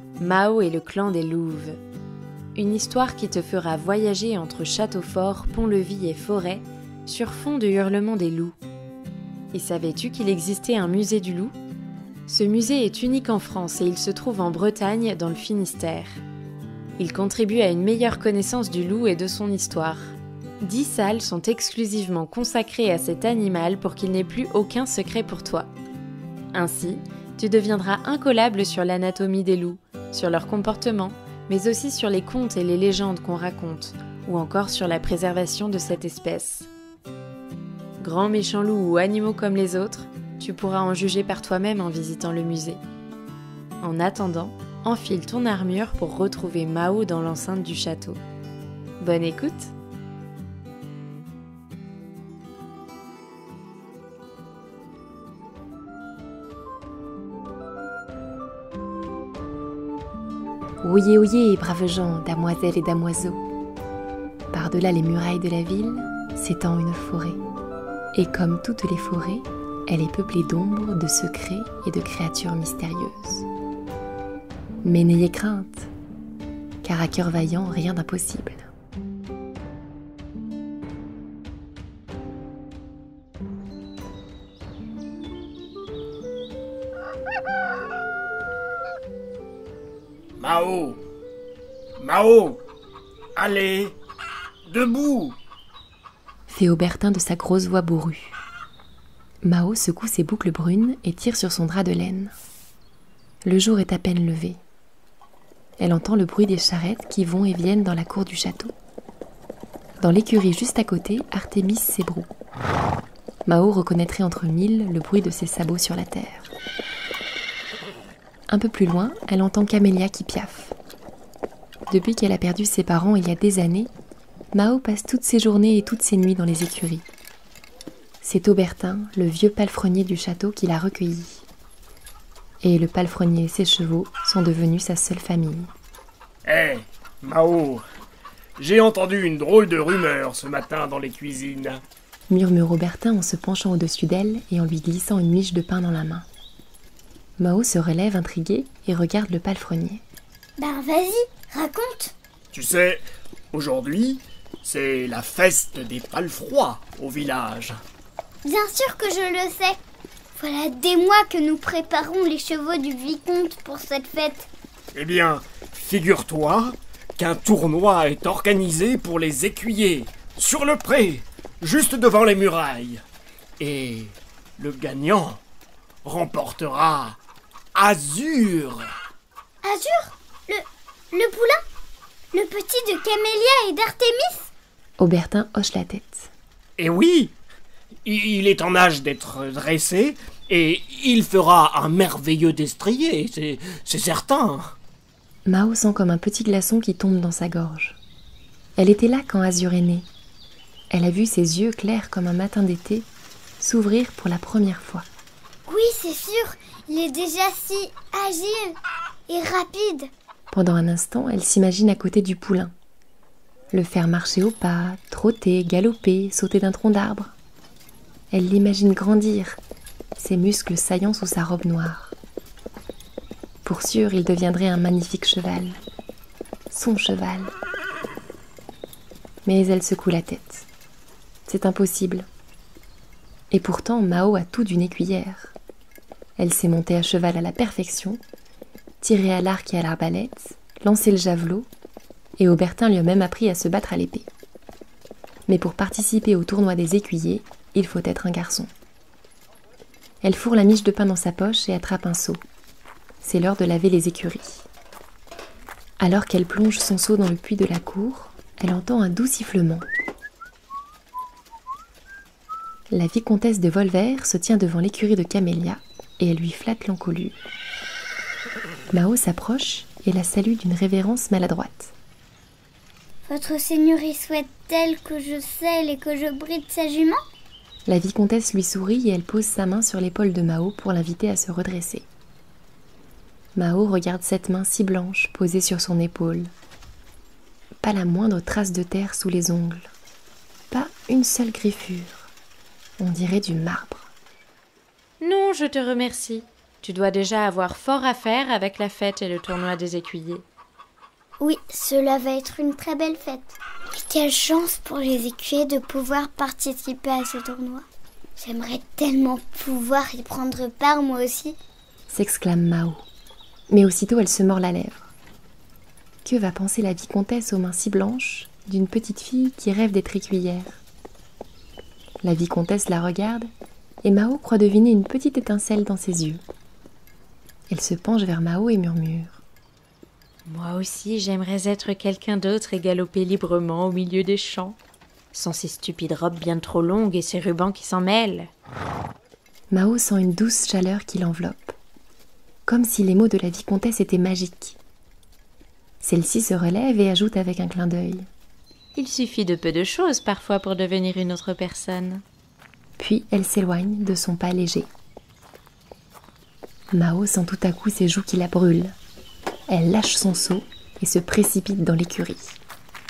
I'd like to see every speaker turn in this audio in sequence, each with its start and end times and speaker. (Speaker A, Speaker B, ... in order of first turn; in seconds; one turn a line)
Speaker A: 0.2-1.8
Speaker A: 2.5-8.6
Speaker A: 9.5-11.6
Speaker A: 12.3-16.2
Speaker A: 17.0-25.7
Speaker A: 26.5-36.7
Speaker A: 38.0-42.8
Speaker A: 43.8-48.2
Speaker A: 49.0-49.7
Speaker B: 60.8-63.4
Speaker B: 64.5-67.4
Speaker B: 68.1-73.5
Speaker B: 74.8-75.9
Speaker B: 76.8-78.7
Speaker C: 90.4-91.0
Speaker C: 92.0-92.6
Speaker C: 93.4-94.0
Speaker C: 94.7-95.4
Speaker B: 96.5-98.4
Speaker B: 99.4-102.3
Speaker B: 103.4-104.6
Speaker B: 105.8-108.7
Speaker B: 110.0-112.3
Speaker B: 113.5-116.5
Speaker B: 118.5-120.8
Speaker B: 121.9-123.9
Speaker B: 124.5-127.1
Speaker B: 128.2-131.5
Speaker B: 132.6-135.7
Speaker C: 136.5-137.8
Speaker C: 138.6-141.8
Speaker B: 142.3-146.3
Speaker B: 147.4-150.0
Speaker D: 150.6-152.1
Speaker C: 152.5-157.8
Speaker D: 158.4-159.8
Speaker D: 160.4-164.5
Speaker C: 164.9-173.0
Speaker C: 173.6-175.4
Speaker C: 176.0-177.2
Speaker C: 177.8-178.9
Speaker D: 179.6-181.6
Speaker D: 182.3-184.5
Speaker B: 185.0-186.3
Speaker C: 186.8-187.3
Speaker C: 188.1-194.8
Speaker B: 195.5-198.0
Speaker B: 198.8-200.1
Speaker B: 200.9-203.1
Speaker B: 203.6-205.1
Speaker D: 205.7-208.8
Speaker D: 209.3-210.1
Speaker B: 210.5-212.7
Speaker B: 213.7-217.3
Speaker B: 218.3-219.6
Speaker B: 220.2-222.2
Speaker B: 223.6-225.8
Speaker B: 226.7-227.5
Speaker B: 229.4-230.7
Speaker B: 231.5-232.3
Speaker B: 233.5-235.6
Speaker B: 236.4-238.2
Speaker B: 239.0-241.7
Speaker B: 242.4-244.3
Speaker B: 245.5-248.7
Speaker B: 250.2-252.4
Speaker B: 253.2-254.7
Speaker B: 256.0-259.9
Speaker B: 262.9-267.4
Speaker B: 268.9-271.9
Speaker D: 273.3-277.2
Speaker B: 277.9-282.1
Speaker B: 283.6-286.5
Speaker B: 287.8-289.9
Speaker B: 290.7-292.3
Speaker B: 293.0-294.1
Speaker A: 295.2-300.4
Speaker D: 301.4-307.9
Speaker D: 308.4-311.6
Speaker B: 312.1-313.1
Speaker B: 313.7-315.1
Speaker B: 316.2-320.8
Speaker B: 322.2-323.5
Speaker B: 324.0-326.4
Speaker B: 327.7-329.4
Speaker A: 330.5-334.8
Speaker A: 335.3-338.5
Speaker B: 339.7-341.8
Speaker B: 342.7-344.8
Speaker B: 346.0-348.3
Speaker A: 349.0-352.2
Speaker B: 353.0-354.9
Speaker B: 356.9-359.0
Speaker B: 359.7-362.6